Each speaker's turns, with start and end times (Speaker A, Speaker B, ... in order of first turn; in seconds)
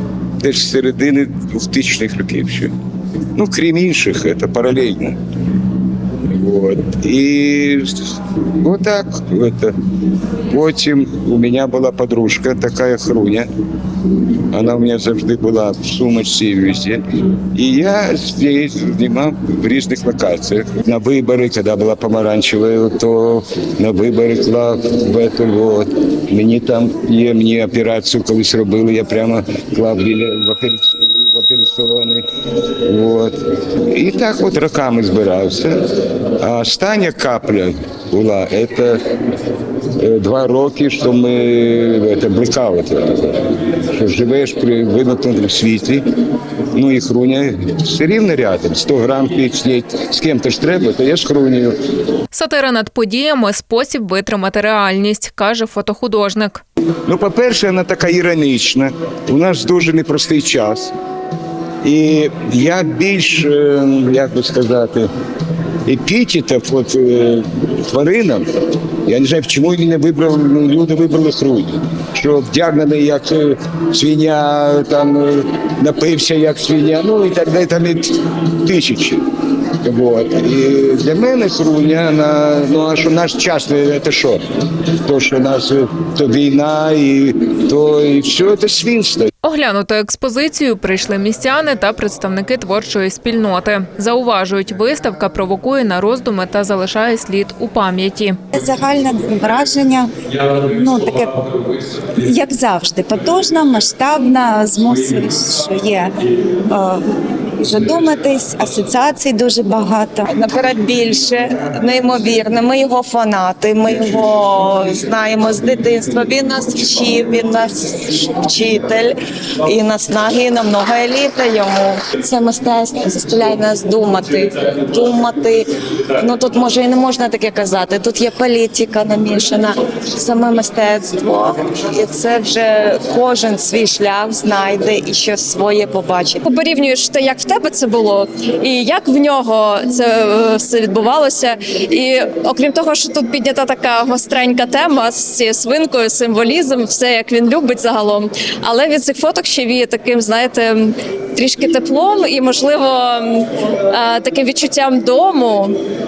Speaker A: 0.4-2.7, 3.4-5.2, 6.3-9.7, 10.5-13.5, 14.5-17.0, 17.6-32.2, 32.8-35.8, 36.4-39.0, 40.0-46.0, 46.8-51.8, 57.1-60.9, 61.8-65.1, 65.9-68.5, 69.0-79.2, 79.8-84.4, 85.0-89.3
Speaker B: 52.3-56.6, 89.4-98.4
Speaker C: 98.5-101.5, 102.2-106.1, 107.7-110.2
Speaker D: 110.2-125.7, 126.2-136.4
Speaker E: 136.4-155.8